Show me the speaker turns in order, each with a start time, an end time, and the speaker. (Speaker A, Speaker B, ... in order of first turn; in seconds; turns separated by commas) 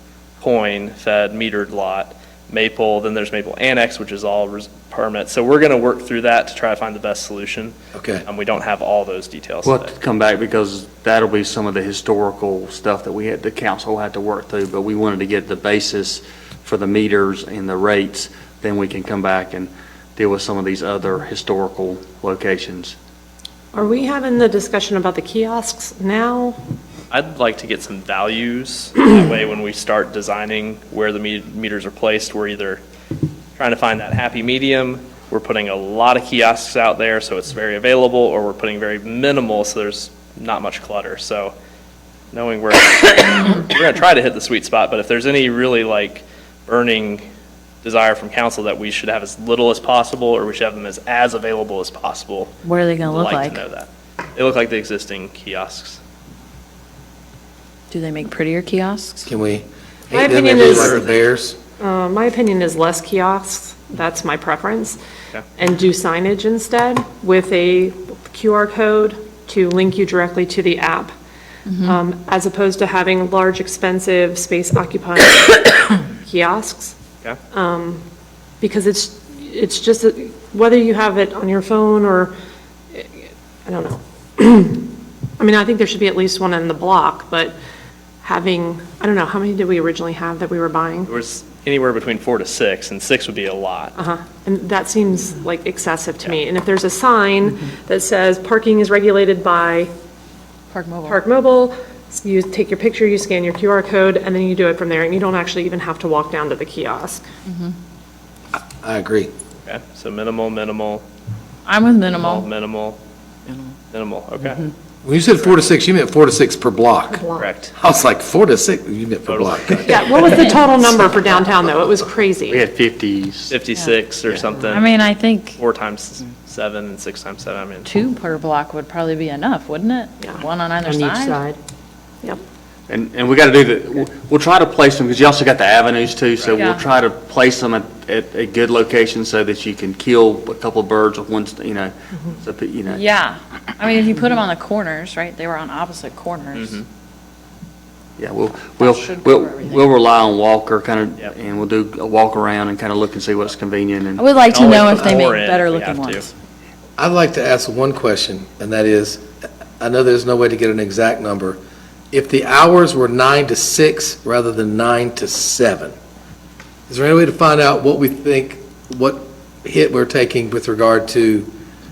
Speaker A: 0.4-7.7, Speaker B: 7.9-8.2, Speaker A: 8.2-9.9, Speaker C: 9.6-22.9, Speaker D: 23.7-26.6, Speaker A: 27.1-32.8, Speaker A: 33.5-41.5, Speaker A: 42.3-47.2, Speaker A: 47.8-56.0, Speaker E: 52.6-53.6, Speaker E: 57.9-59.3, Speaker B: 59.2-61.6, Speaker D: 60.1-61.1, Speaker A: 60.6-61.1, Speaker D: 61.8-65.0, Speaker D: 65.6-71.1, Speaker E: 71.7-72.0, Speaker D: 71.8-77.0, Speaker D: 77.5-78.0, Speaker D: 78.6-82.3, Speaker D: 82.9-87.6, Speaker D: 88.2-91.1, Speaker A: 91.1-93.9, Speaker D: 94.0-99.9, Speaker E: 100.7-101.2, Speaker D: 101.0-107.2, Speaker E: 107.5-107.7, Speaker B: 108.8-109.3, Speaker A: 109.6-111.0, Speaker E: 111.7-112.5, Speaker A: 112.1-113.0, Speaker A: 113.9-114.7, Speaker B: 115.0-120.0, Speaker A: 115.3-115.7, Speaker D: 117.1-117.5, Speaker A: 117.4-117.7, Speaker A: 119.3-120.2, Speaker D: 119.8-122.7, Speaker E: 120.2-120.8, Speaker C: 122.5-123.5, Speaker A: 123.5-124.9, Speaker E: 124.7-125.6, Speaker A: 125.5-127.9, Speaker E: 127.8-131.4, Speaker D: 130.2-131.6, Speaker C: 132.9-143.0, Speaker A: 136.4-136.7, Speaker E: 136.5-136.8, Speaker E: 142.9-146.8, Speaker A: 146.6-146.8, Speaker C: 148.2-155.0, Speaker E: 148.8-149.8, Speaker E: 154.2-156.3, Speaker A: 154.5-156.3, Speaker B: 157.0-159.3, Speaker B: 159.8-161.6, Speaker B: 162.1-165.9, Speaker B: 166.9-171.5